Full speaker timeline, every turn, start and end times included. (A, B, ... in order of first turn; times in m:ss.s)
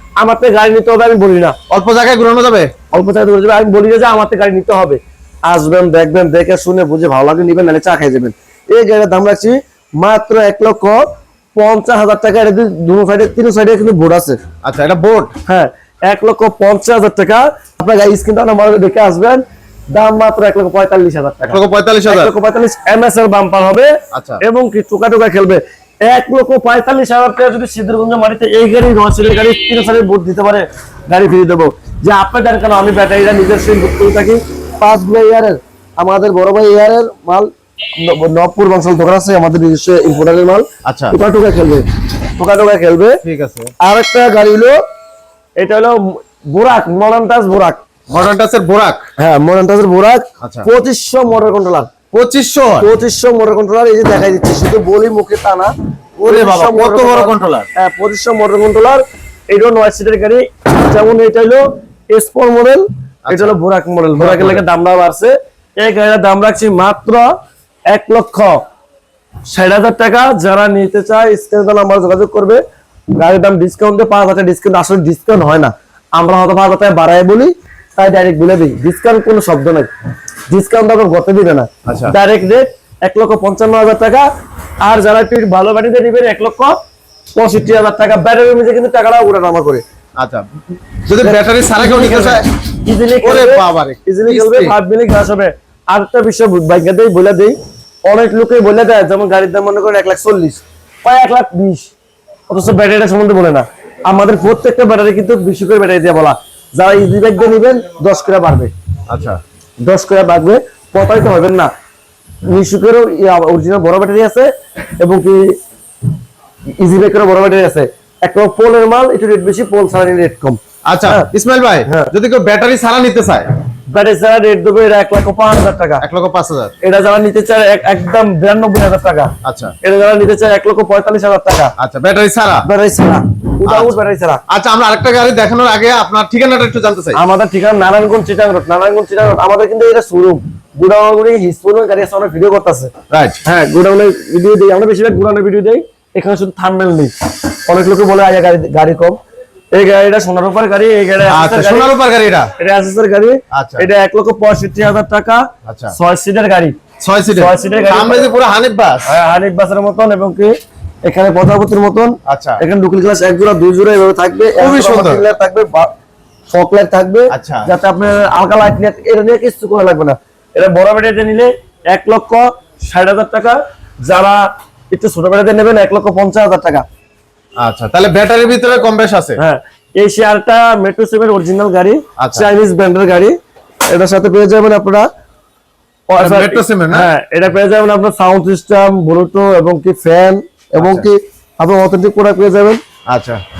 0:00.2-0:01.6 A
0:01.7-0:02.7 B
0:02.9-0:14.4 A
0:14.6-0:15.3 B
0:15.5-0:43.2 A
0:21.5-0:22.3 B
0:24.1-0:24.4 B
0:40.8-0:41.2 B
0:43.2-0:43.7 B
0:43.8-0:44.8 A
0:45.6-0:47.8 A
0:48.1-0:49.0 B
0:49.2-0:51.9 A
0:50.4-0:50.7 B
0:52.1-0:52.9 B
0:52.8-0:55.7 A
0:56.2-0:57.7 B
0:56.2-1:07.3 A
1:03.2-1:03.6 B
1:04.2-1:04.6 B
1:07.9-1:08.6 A
1:09.5-1:12.6 A
1:13.2-1:19.9 A
1:20.5-1:24.2 A
1:21.8-1:22.1 B
1:24.8-1:26.8 A
1:27.4-1:29.8 A
1:30.2-1:30.4 B
1:31.0-1:32.5 B
1:31.2-1:41.9 A
1:33.2-1:34.8 B
1:42.5-1:48.7 A
1:49.1-1:49.4 B
1:49.8-1:51.7 A
1:52.4-1:55.5 A
1:56.8-2:01.3 A
2:00.9-2:03.6 B
2:01.8-2:02.1 A
2:03.9-2:06.0 A
2:06.0-2:06.7 B
2:06.8-2:11.7 A
2:09.4-2:09.7 B
2:11.8-2:12.7 B
2:12.6-2:14.4 A
2:13.6-2:17.2 B
2:17.1-2:22.9 A
2:23.1-2:23.4 B
2:23.4-2:27.1 A
2:27.6-2:29.2 A
2:29.7-2:31.9 A
2:31.3-2:32.5 B
2:32.6-2:36.8 A
2:33.5-2:33.8 B
2:35.6-2:35.9 B
2:37.0-2:39.0 B
2:37.3-2:38.3 A
2:39.0-2:45.9 A
2:42.3-2:42.6 B
2:44.6-2:45.2 B
2:46.5-2:56.8 A
2:47.3-2:47.7 B
2:57.6-2:59.4 B
2:59.4-3:03.3 A
3:02.2-3:02.5 B
3:03.9-3:05.0 A
3:06.1-3:12.8 A
3:06.2-3:07.1 B
3:10.8-3:11.0 B
3:13.1-3:13.4 B